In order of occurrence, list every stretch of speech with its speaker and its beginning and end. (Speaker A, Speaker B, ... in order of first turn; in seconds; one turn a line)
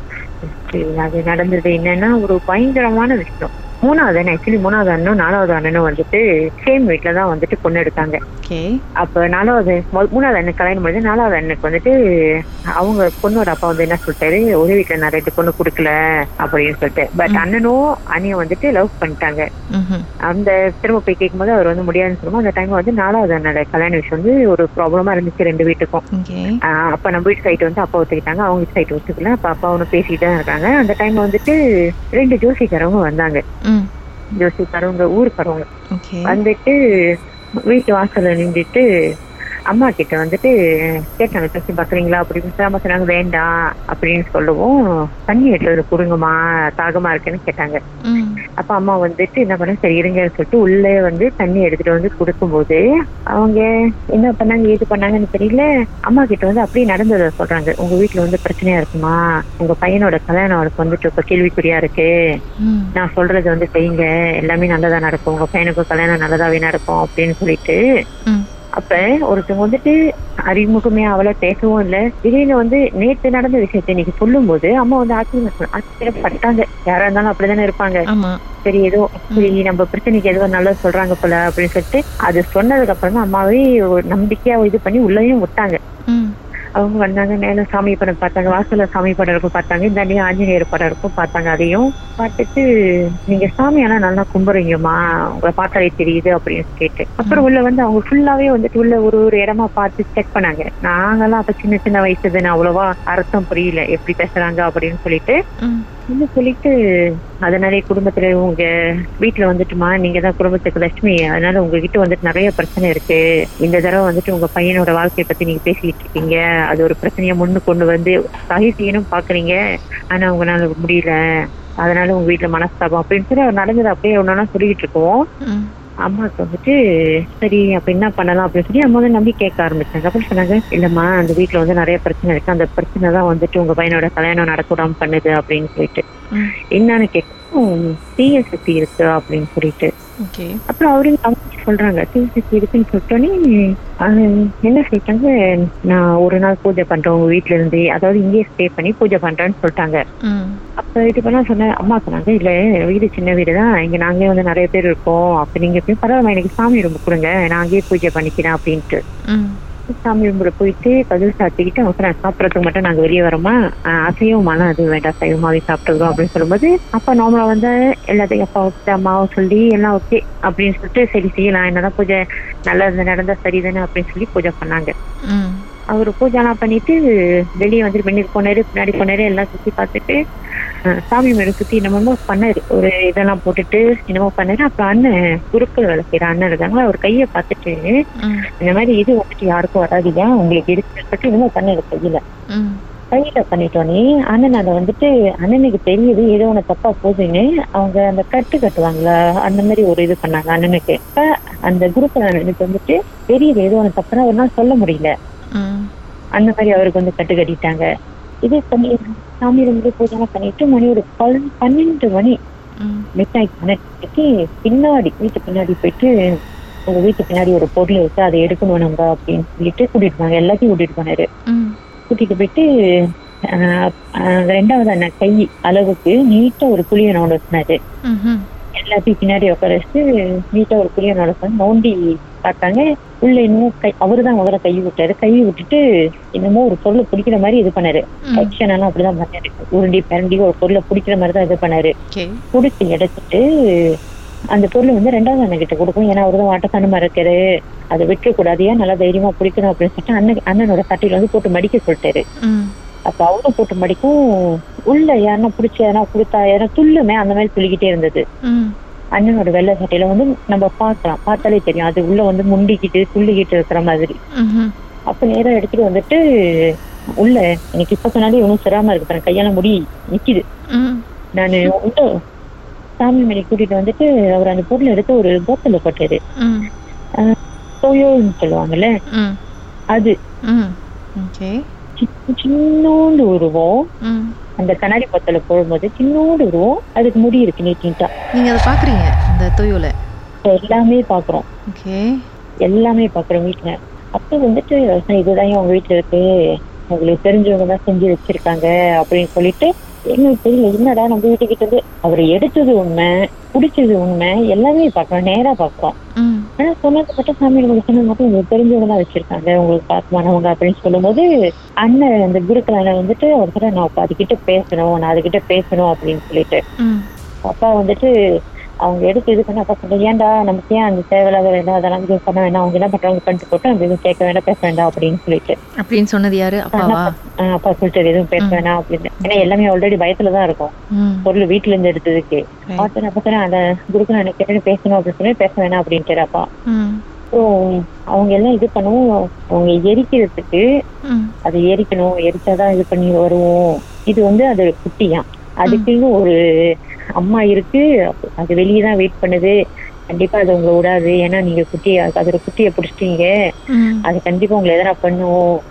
Speaker A: 0.5-8.2
Speaker A: 9.0-11.9
Speaker A: 12.8-19.4
Speaker B: 19.7-20.1
Speaker A: 20.3-26.0
Speaker B: 26.1-26.6
Speaker A: 26.7-31.6
Speaker A: 32.1-33.4
Speaker A: 34.4-35.7
Speaker B: 36.0-36.4
Speaker A: 36.3-36.8
Speaker A: 37.7-38.8
Speaker A: 39.7-40.5
Speaker A: 41.2-44.8
Speaker A: 45.3-47.8
Speaker B: 48.1-48.4
Speaker A: 48.6-52.8
Speaker A: 53.4-62.1
Speaker B: 62.6-62.9
Speaker A: 63.0-67.8
Speaker A: 68.8-69.9
Speaker A: 70.5-78.0
Speaker B: 78.1-78.4
Speaker A: 78.7-85.8
Speaker A: 86.8-92.6
Speaker A: 93.3-105.4
Speaker A: 106.1-106.7
Speaker A: 107.5-108.7
Speaker A: 109.2-119.5
Speaker A: 120.1-121.2
Speaker A: 121.8-125.2
Speaker B: 125.5-125.7
Speaker A: 126.1-126.7
Speaker A: 127.4-136.0
Speaker A: 136.8-139.9
Speaker B: 140.2-140.5
Speaker A: 140.7-143.3
Speaker A: 144.1-150.0
Speaker B: 150.3-150.6
Speaker A: 150.8-159.0
Speaker B: 159.3-159.6
Speaker A: 159.9-172.2
Speaker A: 172.7-174.9
Speaker B: 175.3-175.7
Speaker A: 175.9-177.0
Speaker A: 177.6-180.2
Speaker A: 181.1-187.9
Speaker A: 188.6-192.2
Speaker B: 192.5-192.8
Speaker A: 193.1-205.1
Speaker B: 205.6-205.9
Speaker A: 206.4-207.8
Speaker A: 208.5-212.3
Speaker B: 212.8-213.1
Speaker A: 213.2-216.1
Speaker A: 216.9-221.2
Speaker B: 221.5-221.8
Speaker A: 222.1-222.7
Speaker A: 223.5-227.8
Speaker B: 228.1-228.4
Speaker A: 228.8-230.0
Speaker A: 230.5-235.8
Speaker A: 236.4-241.9
Speaker B: 238.3-238.5
Speaker B: 242.1-242.4
Speaker A: 242.5-243.4
Speaker A: 244.5-247.4
Speaker A: 247.9-252.2
Speaker B: 252.4-252.7
Speaker A: 253.1-258.2
Speaker B: 258.4-258.8
Speaker A: 259.2-264.1
Speaker B: 264.4-264.7
Speaker A: 265.1-266.7
Speaker A: 267.2-270.4
Speaker B: 270.7-271.0
Speaker A: 271.4-272.0
Speaker A: 273.0-276.2
Speaker B: 276.4-276.7
Speaker A: 277.2-278.9
Speaker B: 279.1-279.4
Speaker B: 280.5-281.6
Speaker A: 282.0-283.8
Speaker B: 284.1-284.3
Speaker A: 284.6-288.1
Speaker B: 288.4-289.9
Speaker A: 290.4-291.4
Speaker B: 291.7-292.0
Speaker A: 292.7-296.3
Speaker A: 296.9-306.0
Speaker B: 306.2-306.5
Speaker A: 306.6-311.2
Speaker A: 311.9-316.6
Speaker B: 316.8-317.1
Speaker A: 317.5-318.1
Speaker A: 318.9-325.6
Speaker B: 325.8-327.1
Speaker A: 326.7-330.7
Speaker B: 331.0-331.3
Speaker A: 331.2-336.4
Speaker B: 336.7-337.0
Speaker A: 337.3-339.0
Speaker A: 339.6-340.6
Speaker A: 341.5-346.3
Speaker A: 347.2-347.8
Speaker A: 348.4-349.5
Speaker A: 350.1-353.3
Speaker B: 353.7-354.1
Speaker A: 354.1-355.4